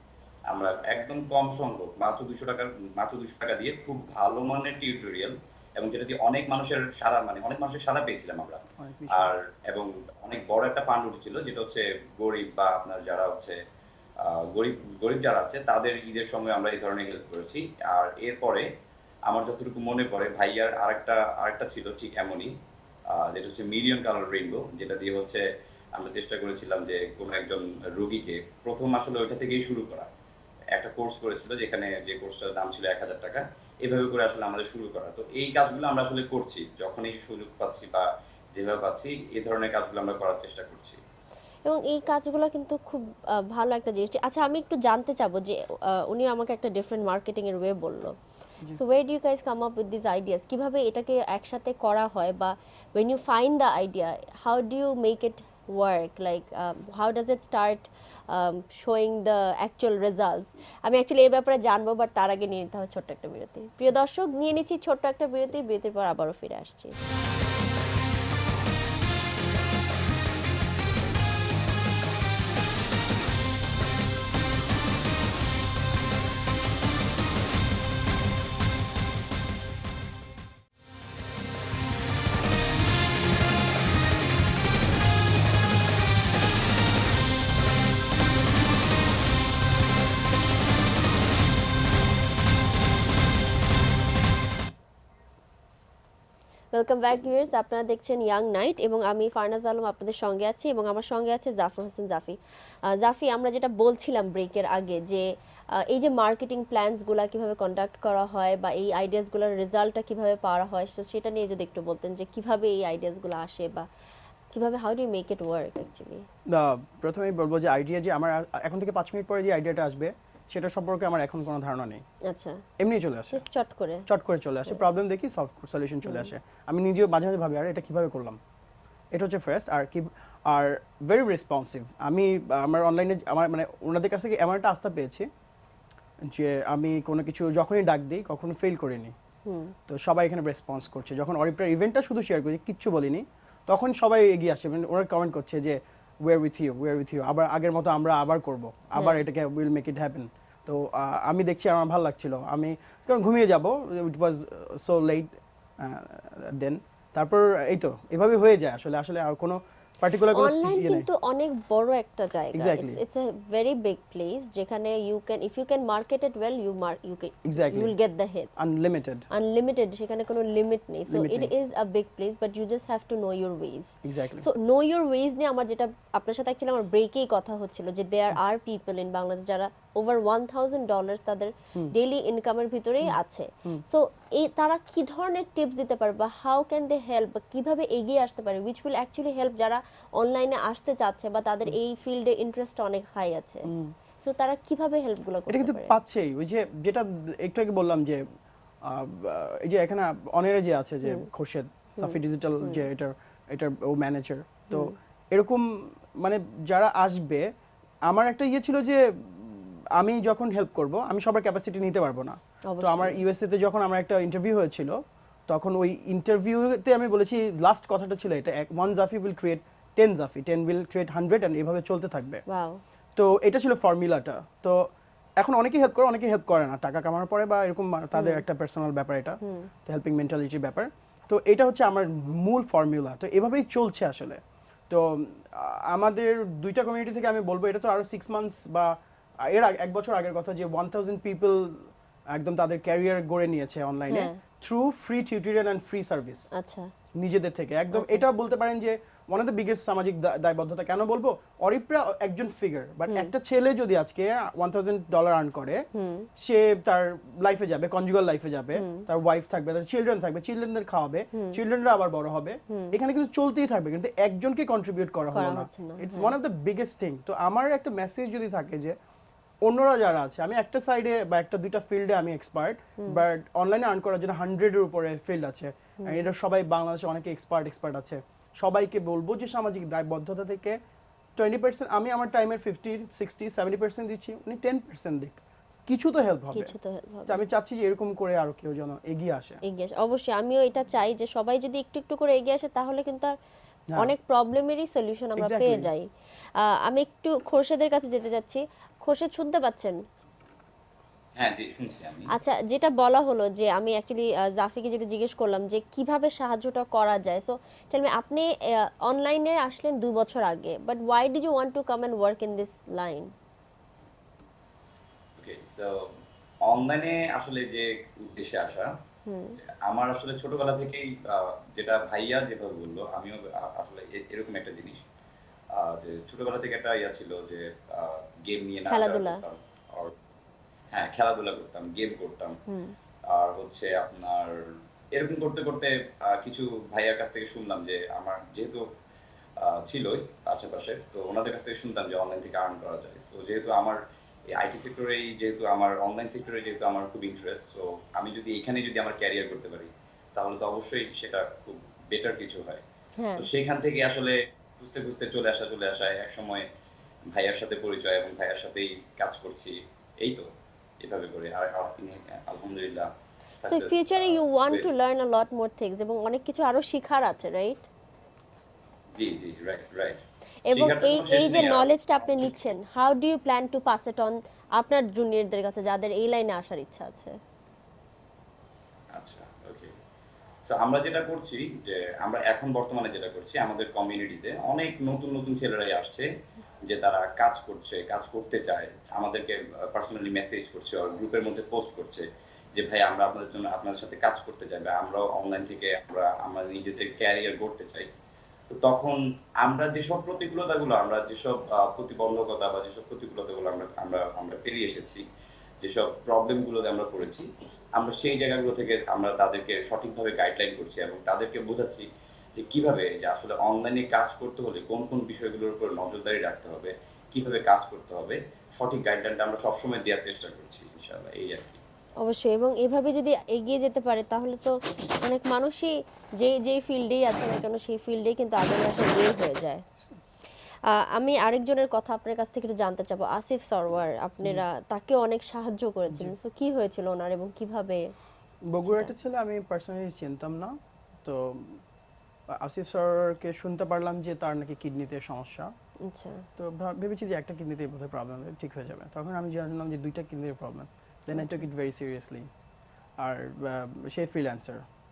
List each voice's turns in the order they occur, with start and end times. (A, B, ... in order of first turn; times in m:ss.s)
0:00.5-0:13.6 A
0:08.8-0:09.3 B
0:14.2-0:18.7 A
0:19.3-0:22.5 A
0:23.1-0:30.1 A
0:30.7-0:41.0 A
0:41.7-0:48.2 C
0:48.8-1:07.0 C
1:36.7-1:42.4 C
1:42.9-1:45.2 C
1:45.8-1:53.9 C
1:54.5-1:56.2 C
1:56.5-2:02.0 B
2:02.3-2:02.6 C
2:02.8-2:03.4 B
2:03.3-2:04.0 C
2:04.1-2:08.4 B
2:06.1-2:06.3 C
2:09.1-2:15.3 B
2:16.3-2:19.1 B
2:19.5-2:19.7 C
2:19.9-2:41.1 B
2:40.3-2:48.5 C
2:42.5-2:43.0 B
2:47.4-2:48.0 B
2:48.6-2:49.2 B
2:49.3-3:16.0 C
2:51.1-2:51.5 B
2:54.0-2:54.5 B
3:03.0-3:03.8 B
3:13.7-3:13.9 B
3:15.5-3:18.2 B
3:18.8-3:25.6 B
3:22.0-3:22.8 C
3:24.7-3:25.0 C
3:26.2-3:27.5 B
3:28.1-3:35.0 B
3:32.7-3:33.2 C
3:35.5-3:42.4 B
3:42.5-3:42.8 C
3:43.2-3:44.9 B
3:45.4-4:06.5 B
3:48.1-3:48.4 C
3:49.4-3:49.7 C
4:04.1-4:04.4 C
4:06.5-4:06.9 C
4:07.2-4:15.8 B
4:07.9-4:08.2 C
4:15.9-4:16.3 C
4:16.4-4:29.0 B
4:18.8-4:19.1 C
4:22.7-4:23.0 C
4:25.3-4:26.4 C
4:29.6-4:40.8 B
4:41.4-4:46.7 B
4:46.5-4:47.4 C
4:47.3-4:49.6 B
4:49.7-4:53.3 C
4:54.0-4:56.0 C
4:55.4-4:55.9 B
4:56.6-5:00.0 C
5:01.4-5:02.3 A
5:02.3-5:13.3 C
5:15.4-5:18.9 A
5:19.3-5:19.6 C
5:19.7-5:25.0 A
5:25.7-5:30.2 A
5:28.9-5:29.4 C
5:30.9-5:32.6 A
5:32.7-5:33.0 C
5:33.3-5:38.8 A
5:39.6-5:44.0 A
5:44.5-5:52.8 A
5:53.2-5:53.5 C
5:53.4-5:56.7 A
5:57.3-6:00.5 A
6:01.0-6:04.9 A
6:03.7-6:07.9 C
6:09.2-6:11.9 A
6:10.7-6:17.3 C
6:19.2-6:19.9 A
6:20.7-6:26.3 A
6:26.9-6:38.1 A
6:38.7-6:45.2 A
6:45.8-7:01.8 A
7:02.2-7:09.8 C
7:10.9-7:18.0 C
7:18.7-7:21.8 B
7:22.5-7:25.7 B
7:26.0-7:26.5 C
7:26.6-7:32.5 B
7:31.4-7:31.7 C
7:33.2-7:34.8 B